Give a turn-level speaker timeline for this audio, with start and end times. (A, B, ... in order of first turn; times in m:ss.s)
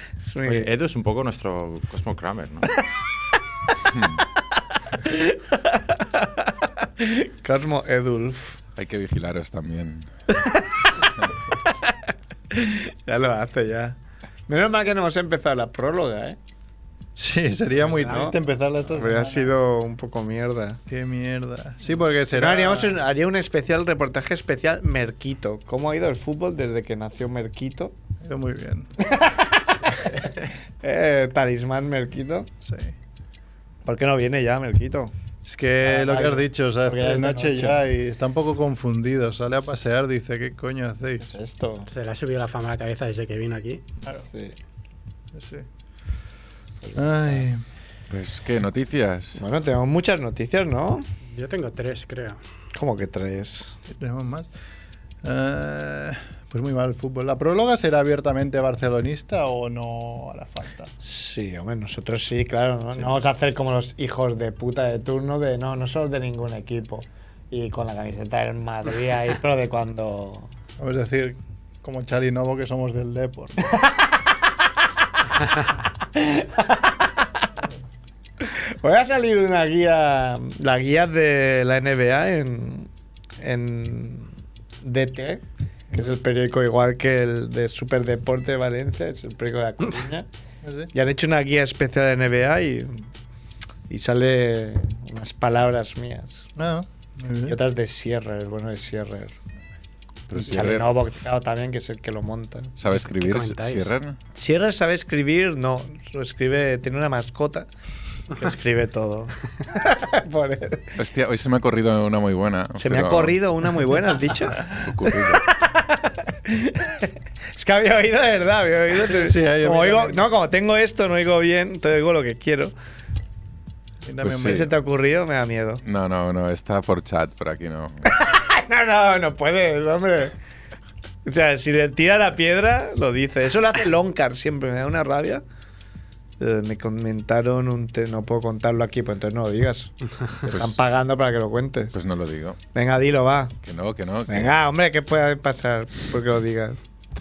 0:00.2-0:00.7 A
0:00.4-0:02.7 B
0:03.9-0:04.2 C
0:05.0-0:08.6 A
0:08.8-0:10.1 C
0:10.3-0:11.1 A
0:11.6-0:16.4 A
0:17.2-0:19.5 D
0:17.8-0:20.8 A
0:20.9-0:23.0 D
0:22.3-0:27.9 A
0:28.2-0:29.0 D
0:29.0-0:30.3 A
0:30.1-0:30.5 D
0:30.8-0:32.5 A
0:32.6-0:32.9 D
0:33.8-0:35.1 A
0:35.4-0:41.4 D
0:35.8-0:37.8 A
0:41.3-0:41.9 A
0:41.9-0:43.8 E
0:44.1-0:44.5 A
0:45.3-0:45.7 D
0:46.8-0:47.4 A
0:46.9-0:47.6 D
0:48.1-0:49.4 C
0:49.4-0:51.0 A
0:51.3-0:52.4 E
0:52.7-0:53.8 A
0:53.9-0:54.5 D
0:55.2-1:00.9 D
1:01.0-1:10.5 A
1:10.8-1:13.7 D
1:13.6-1:14.5 A
1:16.1-1:17.5 A
1:18.4-1:22.9 A
1:23.4-1:24.3 A
1:24.8-1:30.3 A
1:30.6-1:30.9 D
1:30.9-1:33.0 A
1:33.9-1:36.5 A
1:36.6-1:37.6 D
1:37.5-1:39.3 A
1:40.3-1:40.9 C
1:40.4-1:42.7 A
1:42.8-1:44.2 C
1:42.9-1:43.9 E
1:44.3-1:47.7 A
1:48.3-1:50.9 A
1:51.0-1:53.4 C
1:52.8-2:02.7 A
1:54.7-1:55.4 C
1:58.9-2:00.2 D
2:04.0-2:04.7 D
2:04.2-2:04.7 C
2:04.4-2:05.8 A
2:05.8-2:08.1 C
2:08.0-2:10.3 A
2:11.2-2:15.4 A
2:16.4-2:21.9 A
2:20.5-2:20.8 C
2:21.9-2:22.6 C
2:22.7-2:23.6 A
2:23.6-2:24.5 C
2:24.3-2:26.8 A